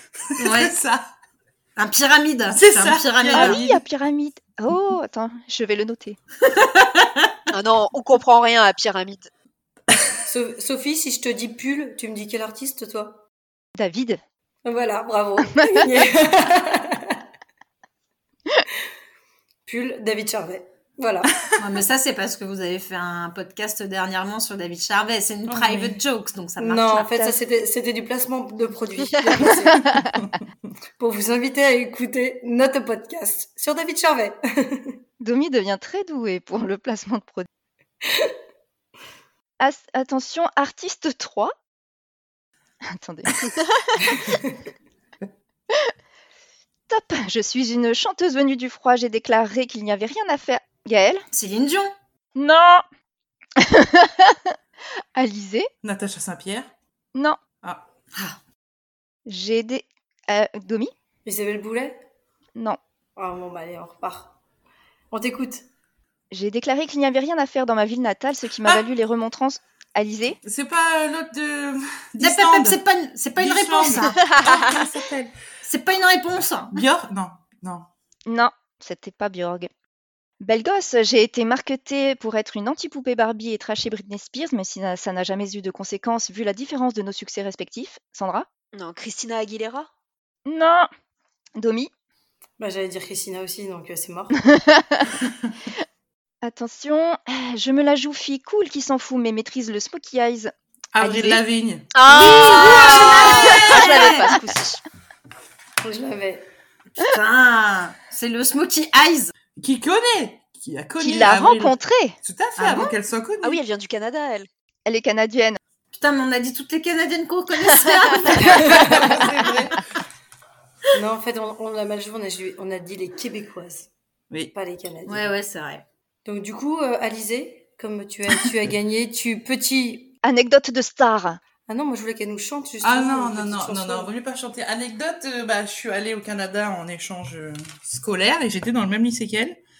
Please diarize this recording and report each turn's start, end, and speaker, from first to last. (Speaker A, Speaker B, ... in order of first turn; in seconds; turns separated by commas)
Speaker A: 0.4-0.8, Speaker B: 0.4-1.1, Speaker A: 1.8-3.6, Speaker B: 2.5-3.8, Speaker C: 3.3-6.2, Speaker A: 6.5-7.3, Speaker D: 7.5-9.3, Speaker E: 10.3-13.2, Speaker C: 13.8-14.2, Speaker E: 14.7-17.2, Speaker E: 19.7-21.3, Speaker A: 21.6-27.1, Speaker B: 25.6-25.9, Speaker E: 26.6-30.1, Speaker C: 29.7-30.2, Speaker E: 31.0-35.0, Speaker C: 35.2-37.5, Speaker E: 38.0-38.3, Speaker C: 39.6-41.5, Speaker C: 42.9-43.5, Speaker E: 44.2-44.5, Speaker C: 46.9-51.3, Speaker A: 51.3-51.9, Speaker C: 52.4-52.8, Speaker C: 53.6-54.6, Speaker C: 55.1-55.7, Speaker B: 55.8-56.7, Speaker C: 59.3-60.9, Speaker E: 61.3-62.0, Speaker E: 63.2-64.3, Speaker E: 65.1-65.7, Speaker C: 66.3-70.4, Speaker B: 70.4-72.8, Speaker A: 72.2-74.2, Speaker B: 73.4-75.3, Speaker D: 74.2-74.8, Speaker A: 75.6-76.9, Speaker B: 76.7-77.9, Speaker C: 78.3-79.7, Speaker C: 80.4-88.5, Speaker D: 88.7-89.9, Speaker C: 90.5-90.9, Speaker C: 91.6-91.9, Speaker E: 92.6-94.4, Speaker C: 94.5-95.1, Speaker C: 96.4-101.4, Speaker B: 100.9-101.9, Speaker D: 101.9-104.8, Speaker A: 102.1-104.4, Speaker C: 103.4-104.5, Speaker E: 105.8-106.5, Speaker A: 107.0-109.3, Speaker B: 109.6-113.6, Speaker C: 111.0-112.2, Speaker A: 112.6-112.9, Speaker D: 113.4-114.5, Speaker C: 114.9-115.6, Speaker A: 115.9-119.3, Speaker E: 118.4-119.5, Speaker D: 118.7-119.6, Speaker B: 119.4-119.7, Speaker E: 120.9-123.9, Speaker E: 124.5-125.3, Speaker A: 125.1-125.8, Speaker E: 126.2-130.2, Speaker C: 130.2-131.4, Speaker E: 131.7-134.1, Speaker B: 132.8-139.6